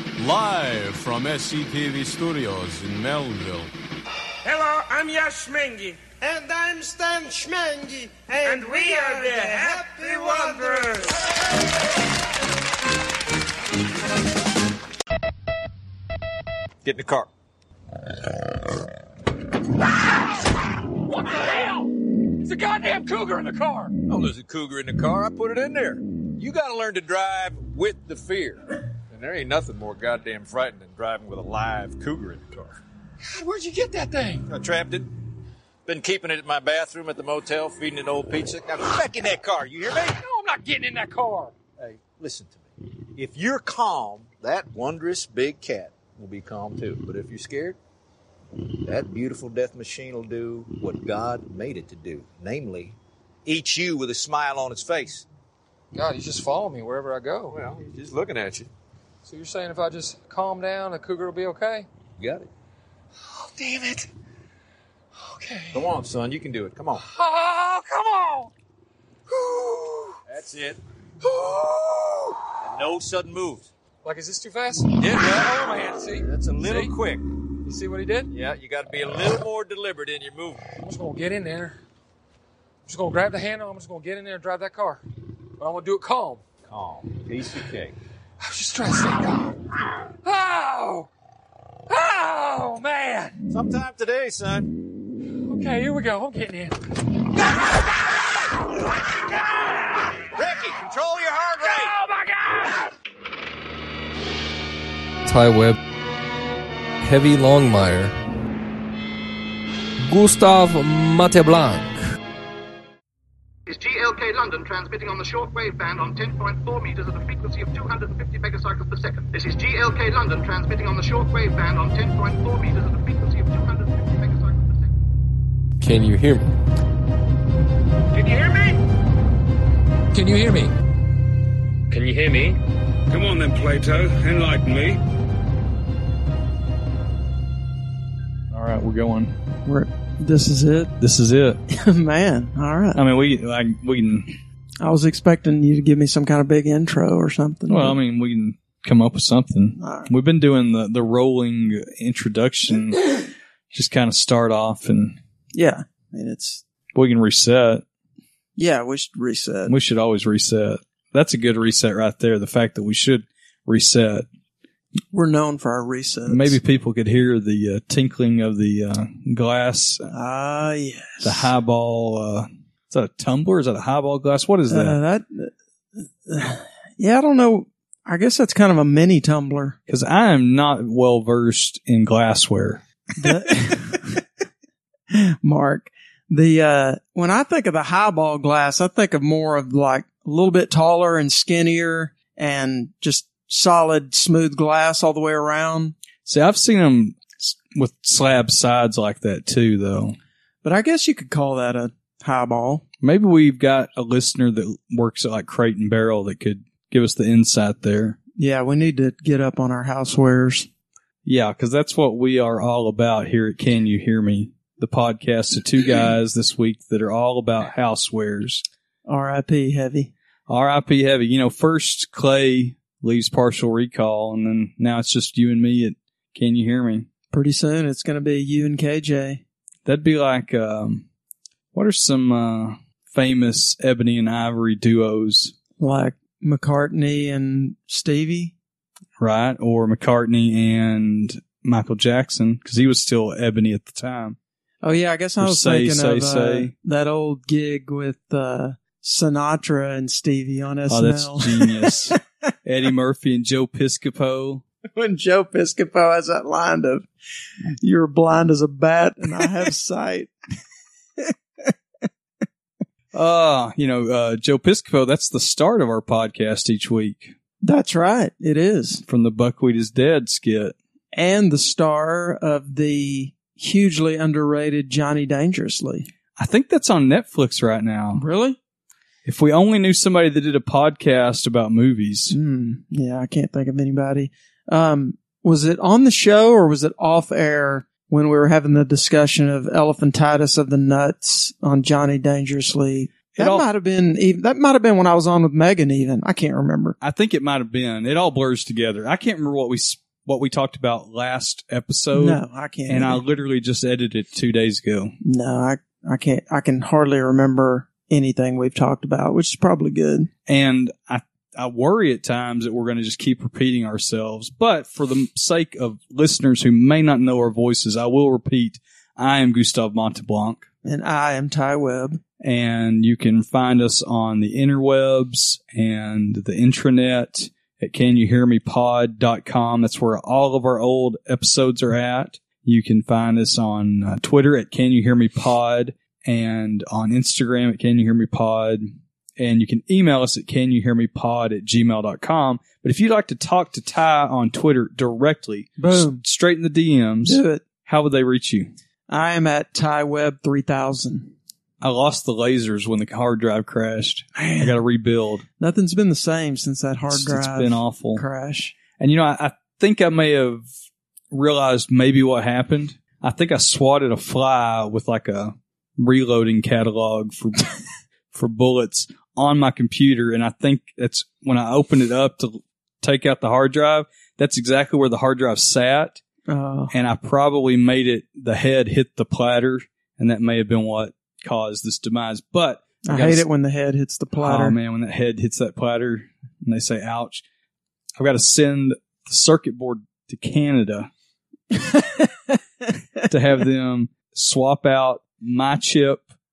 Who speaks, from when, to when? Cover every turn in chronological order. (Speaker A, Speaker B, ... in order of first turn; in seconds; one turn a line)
Speaker A: 0.2-3.7
Speaker B: 4.4-11.2
Speaker C: 16.8-17.3
Speaker D: 21.1-21.9
Speaker D: 22.4-23.9
Speaker C: 24.1-32.8
Speaker D: 33.2-34.5
Speaker C: 34.5-35.1
Speaker C: 35.9-40.2
Speaker D: 40.2-41.5
Speaker C: 41.8-47.8
Speaker C: 48.8-55.3
Speaker D: 55.9-57.6
Speaker C: 57.5-58.7
Speaker D: 59.2-61.9
Speaker C: 62.2-62.5
Speaker D: 63.3-64.1
Speaker D: 65.2-65.9
Speaker C: 65.7-67.0
Speaker D: 67.0-68.5
Speaker D: 69.3-70.2
Speaker C: 70.3-70.8
Speaker D: 71.3-72.3
Speaker C: 72.6-73.7
Speaker D: 74.0-76.9
Speaker C: 74.9-75.7
Speaker C: 76.2-77.2
Speaker D: 77.7-78.3
Speaker C: 78.3-80.7
Speaker D: 80.8-81.8
Speaker D: 82.9-85.0
Speaker D: 85.6-86.4
Speaker C: 86.7-88.0
Speaker D: 88.4-89.6
Speaker D: 90.2-91.1
Speaker D: 91.9-93.4
Speaker C: 93.5-94.7
Speaker D: 95.4-96.8
Speaker C: 100.3-101.9
Speaker D: 101.6-102.8
Speaker E: 105.2-105.8
Speaker E: 107.0-108.1
Speaker E: 110.0-112.0
Speaker F: 113.7-124.9
Speaker E: 125.8-126.5
Speaker B: 128.1-128.8
Speaker D: 130.1-130.7
Speaker B: 133.1-135.0
Speaker G: 138.5-139.3
Speaker H: 139.7-140.9
Speaker G: 141.0-141.6
Speaker H: 141.7-143.0
Speaker G: 142.9-144.4
Speaker H: 144.8-148.0
Speaker G: 147.7-153.1
Speaker H: 149.8-150.1
Speaker G: 153.7-155.2
Speaker H: 155.5-156.6
Speaker G: 156.9-157.8
Speaker H: 158.6-159.8
Speaker G: 159.7-164.2
Speaker H: 165.1-166.6
Speaker G: 166.3-170.1
Speaker H: 170.1-171.5
Speaker G: 171.2-175.0
Speaker H: 174.7-179.8
Speaker G: 179.9-183.4
Speaker H: 183.2-184.2
Speaker H: 185.1-195.9
Speaker G: 196.2-200.2
Speaker H: 200.6-202.8
Speaker G: 203.0-208.2
Speaker H: 208.4-210.7
Speaker G: 211.2-218.6
Speaker H: 219.1-220.1
Speaker G: 220.5-227.1
Speaker H: 227.3-229.4
Speaker G: 229.8-231.1
Speaker G: 231.7-235.6
Speaker H: 235.8-238.5
Speaker G: 239.2-244.4
Speaker H: 244.8-252.1
Speaker G: 245.4-246.7
Speaker G: 250.9-254.6
Speaker H: 255.0-257.1
Speaker H: 257.8-260.3
Speaker H: 261.2-261.7
Speaker G: 263.1-267.4
Speaker H: 267.6-269.0
Speaker G: 269.1-270.8
Speaker H: 271.1-276.1
Speaker G: 276.4-278.2
Speaker H: 278.2-278.6
Speaker G: 279.2-282.4
Speaker H: 282.3-297.0
Speaker G: 293.4-293.7
Speaker G: 297.0-305.1
Speaker H: 302.1-303.2
Speaker H: 305.2-310.3
Speaker G: 310.5-320.7
Speaker H: 320.8-322.2
Speaker G: 322.4-348.7
Speaker H: 345.8-346.2
Speaker H: 347.2-347.6
Speaker H: 349.1-351.3
Speaker G: 351.8-355.4
Speaker H: 354.4-354.8
Speaker H: 355.6-358.8
Speaker G: 357.1-358.2
Speaker G: 359.0-360.7
Speaker G: 361.3-367.7
Speaker G: 368.3-376.2
Speaker H: 376.5-376.9
Speaker G: 376.9-383.5
Speaker H: 383.1-384.8
Speaker G: 384.4-387.4
Speaker G: 388.2-391.1
Speaker H: 391.7-392.6
Speaker G: 393.3-396.3